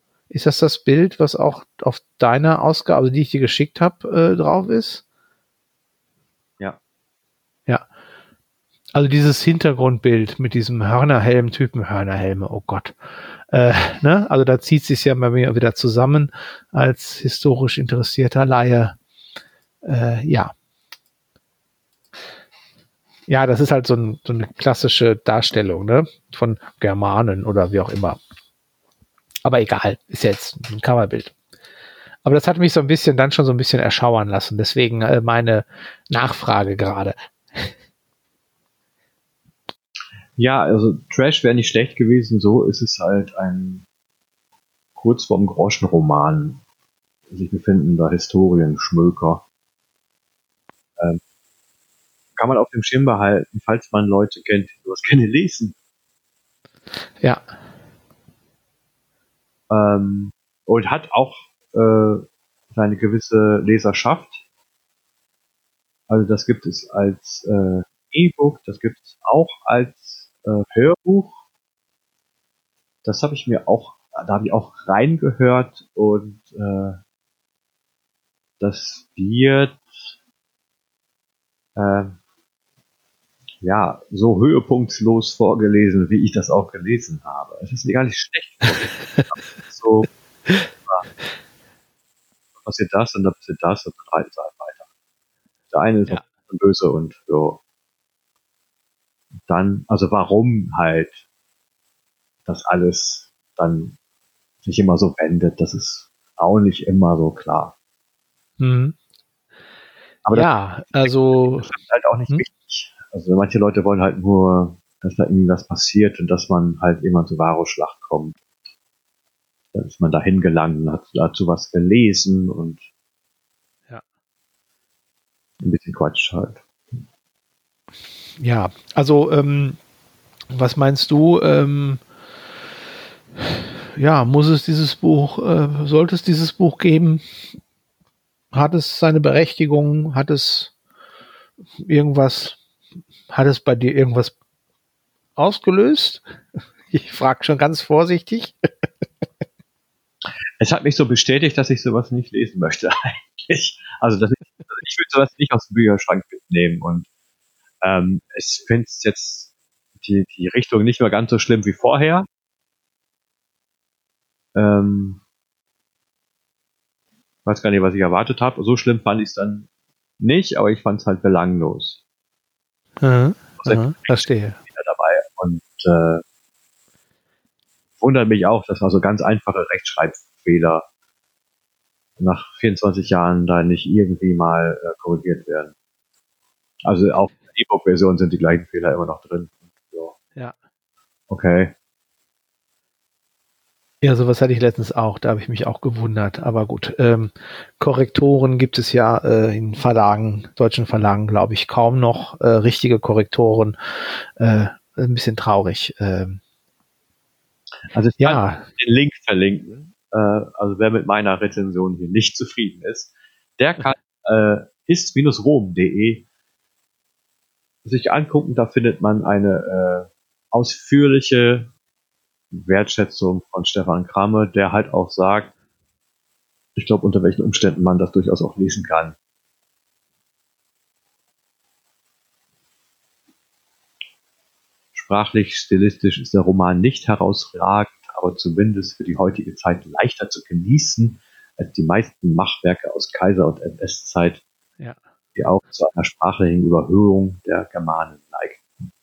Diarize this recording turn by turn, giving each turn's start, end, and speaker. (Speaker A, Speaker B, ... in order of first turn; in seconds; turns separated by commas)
Speaker A: 0.3-5.0, Speaker A: 8.9-12.9, Speaker A: 13.5-18.9, Speaker A: 19.8-20.5, Speaker A: 23.3-28.2, Speaker A: 29.4-31.3, Speaker A: 32.2-37.7, Speaker B: 40.4-43.8, Speaker B: 45.0-46.6, Speaker B: 47.3-49.4, Speaker B: 52.4-55.7, Speaker B: 59.7-64.4, Speaker B: 66.1-71.4, Speaker B: 73.0-77.0, Speaker B: 78.6-80.1, Speaker B: 81.8-82.2, Speaker B: 83.6-90.1, Speaker B: 92.6-94.8, Speaker B: 95.7-97.6, Speaker B: 99.5-101.2, Speaker B: 102.5-104.0, Speaker B: 104.6-107.7, Speaker A: 108.6-108.9, Speaker B: 110.2-118.4, Speaker A: 110.3-111.7, Speaker B: 119.7-122.8, Speaker B: 125.6-127.0, Speaker A: 128.4-129.8, Speaker A: 130.5-132.0, Speaker A: 133.4-137.2, Speaker A: 138.5-140.7, Speaker A: 141.8-142.6, Speaker A: 143.3-144.3, Speaker A: 145.4-146.2, Speaker A: 146.9-148.5, Speaker B: 150.6-157.1, Speaker B: 157.8-162.3, Speaker B: 164.5-165.2, Speaker B: 167.4-169.7, Speaker B: 170.2-172.0, Speaker A: 173.0-174.6, Speaker B: 173.6-176.2, Speaker B: 178.0-180.8, Speaker B: 182.2-185.7, Speaker B: 186.8-190.2, Speaker B: 191.3-191.7, Speaker A: 194.0-203.8, Speaker A: 204.4-206.4, Speaker B: 207.9-216.2, Speaker A: 208.2-208.7, Speaker B: 217.8-221.7, Speaker B: 222.5-225.5, Speaker B: 226.8-229.2, Speaker B: 234.9-244.4, Speaker B: 245.3-248.6